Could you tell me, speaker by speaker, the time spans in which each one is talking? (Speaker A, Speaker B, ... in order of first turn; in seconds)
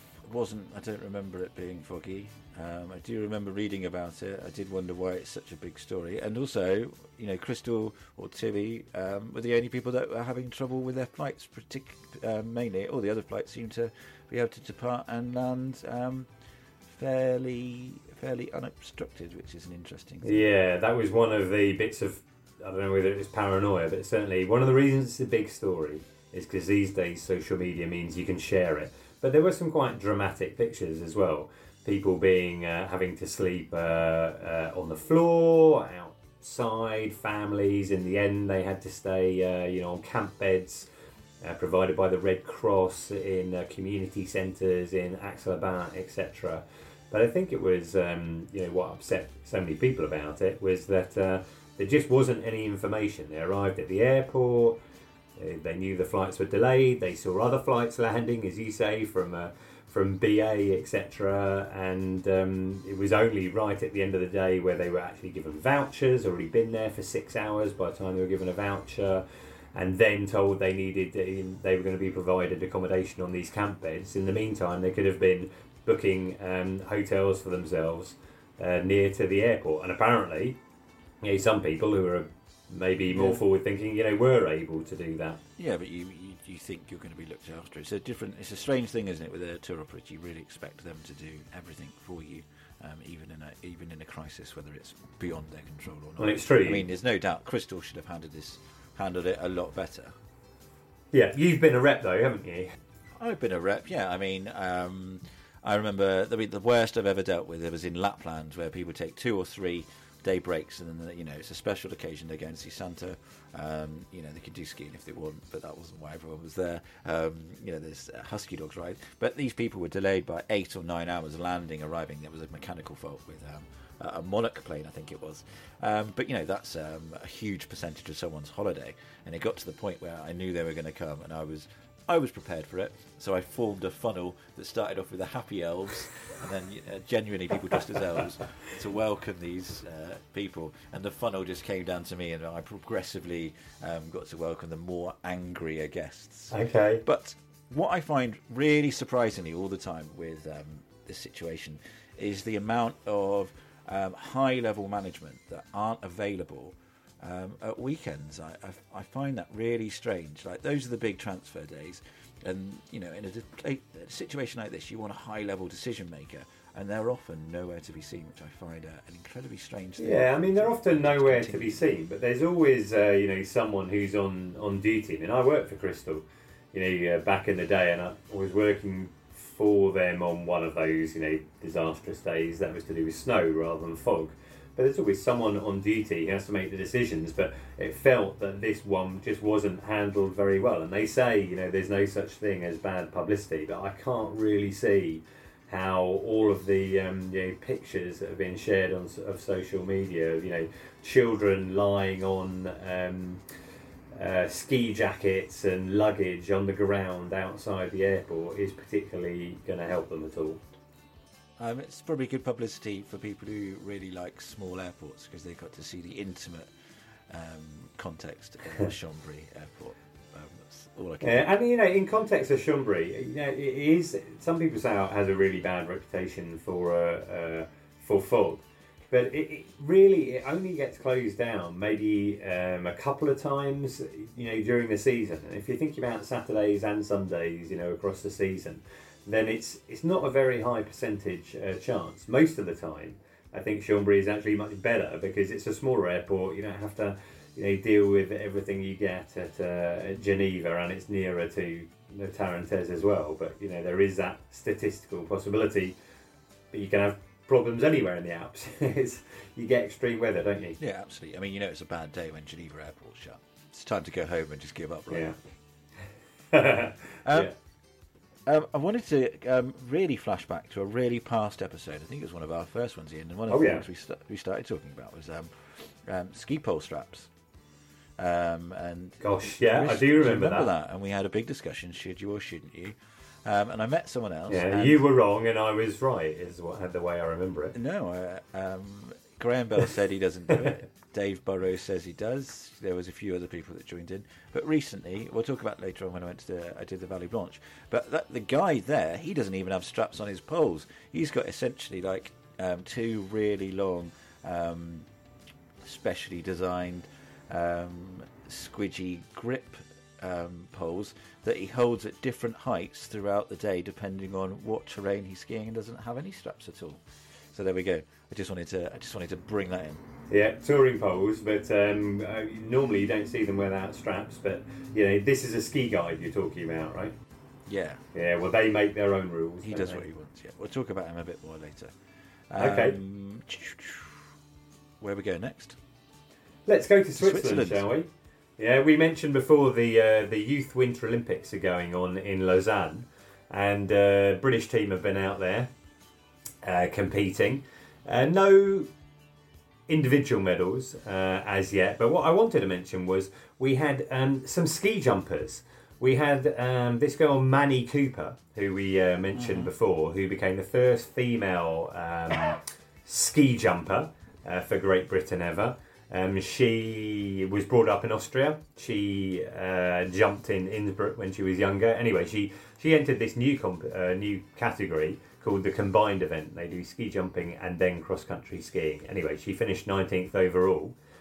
Speaker A: 0.2-16.3, 16.9-20.4, 83.1-83.4, 85.6-100.1, 103.2-171.8, 211.6-216.7, 217.3-221.5, 260.8-265.3, 267.2-267.5, 268.4-277.3, 278.2-285.0, 287.7-305.1, 305.8-317.0, 317.5-320.0, 327.7-328.0, 329.6-331.9, 332.5-334.2, 335.0-335.8, 337.2-337.9, 359.3-359.7
Speaker B: 20.2-40.9, 41.4-54.8, 55.4-80.6, 81.2-85.4, 96.2-96.8, 101.1-102.7, 146.5-147.0, 170.0-203.4, 204.1-210.6, 221.2-255.9, 256.7-260.8, 265.1-265.4, 266.5-267.5, 273.5-273.8, 279.2-280.7, 284.5-287.7, 320.3-327.1, 328.1-330.0, 332.6-332.9, 336.7-345.7, 346.6-348.9, 349.9-380.9